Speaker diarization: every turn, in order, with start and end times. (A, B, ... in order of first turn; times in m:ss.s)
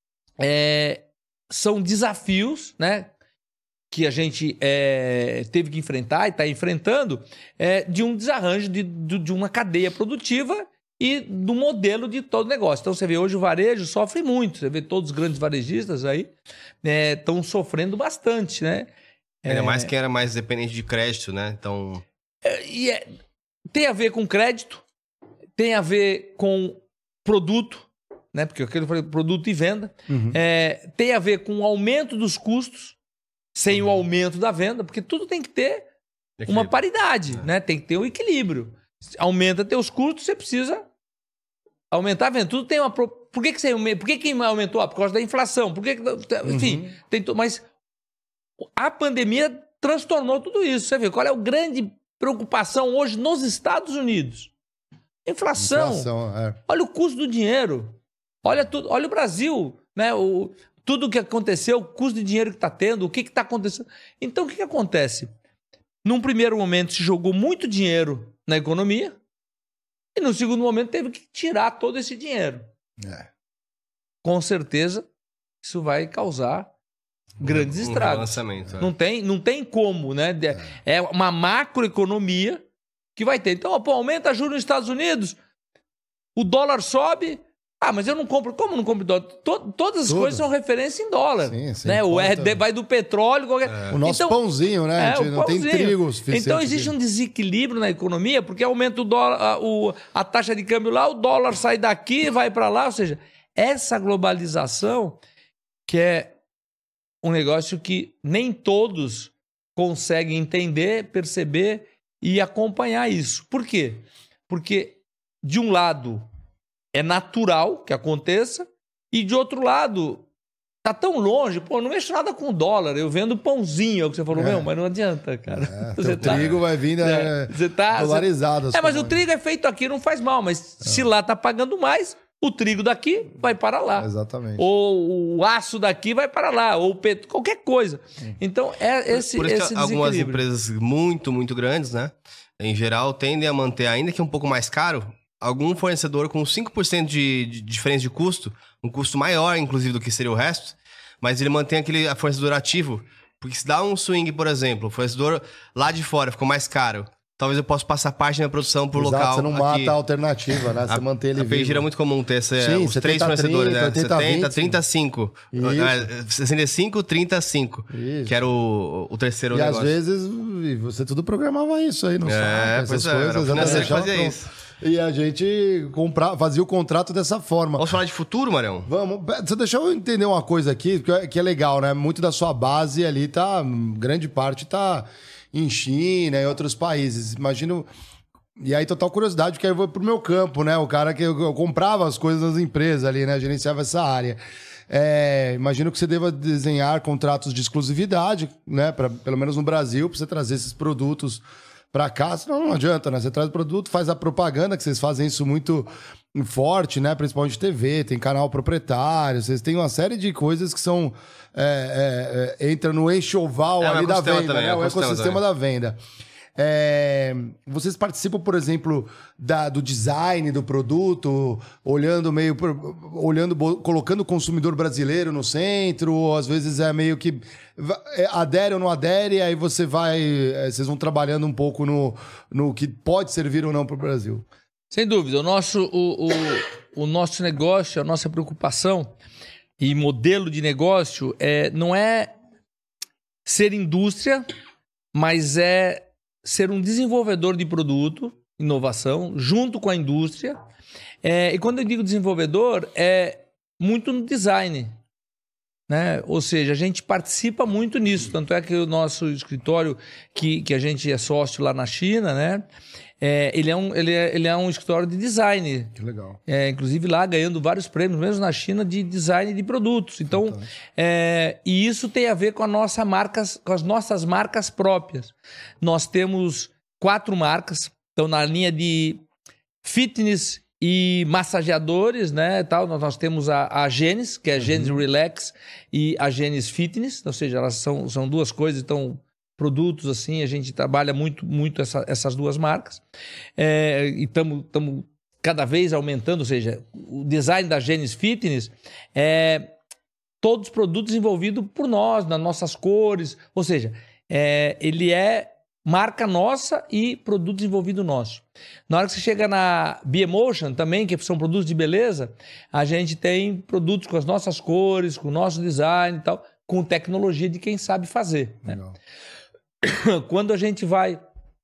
0:00.4-0:03.1 A
0:03.9-0:16.3 A
0:16.8-0:18.9 A
0:19.4-0:19.9 A
0:19.5-0:22.0 B
0:22.4-0:23.1 A
0:23.7-0:24.8 A
0:25.6-0:33.0 A
0:30.1-0:30.4 C
0:33.6-0:35.9 A
0:36.4-0:36.7 B
0:36.5-0:40.8 A
0:41.9-0:47.6 A
0:46.4-0:46.9 C
0:48.8-0:54.5 A
0:55.2-0:56.1 A
0:55.6-0:56.6 C
0:56.6-1:05.3 A
1:06.0-1:09.2 A
1:10.1-1:12.7 A
1:13.0-1:13.3 C
1:14.2-1:15.1 A
1:15.6-1:16.7 A
1:17.4-1:22.6 A
1:17.4-1:18.9 B
1:23.2-1:25.4 A
1:26.4-1:34.4 A
1:30.1-1:30.4 C
1:31.4-1:32.6 C
1:33.9-1:36.9 C
1:35.0-1:45.2 A
1:45.9-1:46.3 A
1:47.2-1:56.3 A
1:56.9-2:00.3 A
2:00.8-2:20.4 A
2:04.3-2:04.7 C
2:05.5-2:09.2 C
2:06.2-2:06.6 B
2:14.0-2:14.6 C
2:19.1-2:40.0 B
2:38.9-2:41.9 C
2:40.8-2:49.9 B
2:42.6-2:44.8 C
2:45.5-2:46.1 C
2:47.9-2:48.4 C
2:49.5-2:58.0 C
2:52.3-2:54.5 B
2:57.8-2:58.9 B
2:58.8-3:07.9 C
3:08.6-3:36.0 C
3:33.8-3:35.4 B
3:36.6-3:54.4 C
3:54.9-3:59.1 A
3:59.8-4:02.3 A
4:03.4-4:04.4 A
4:05.1-4:10.6 A
4:11.2-4:14.9 A
4:15.9-4:22.6 A
4:23.2-4:25.9 A
4:26.0-4:26.4 C
4:26.5-4:39.2 A
4:30.3-4:30.7 C
4:39.8-4:53.0 A
4:44.6-4:45.0 C
4:53.6-4:59.7 A
5:00.4-5:18.8 A
5:18.7-5:18.9 C
5:19.8-5:21.2 A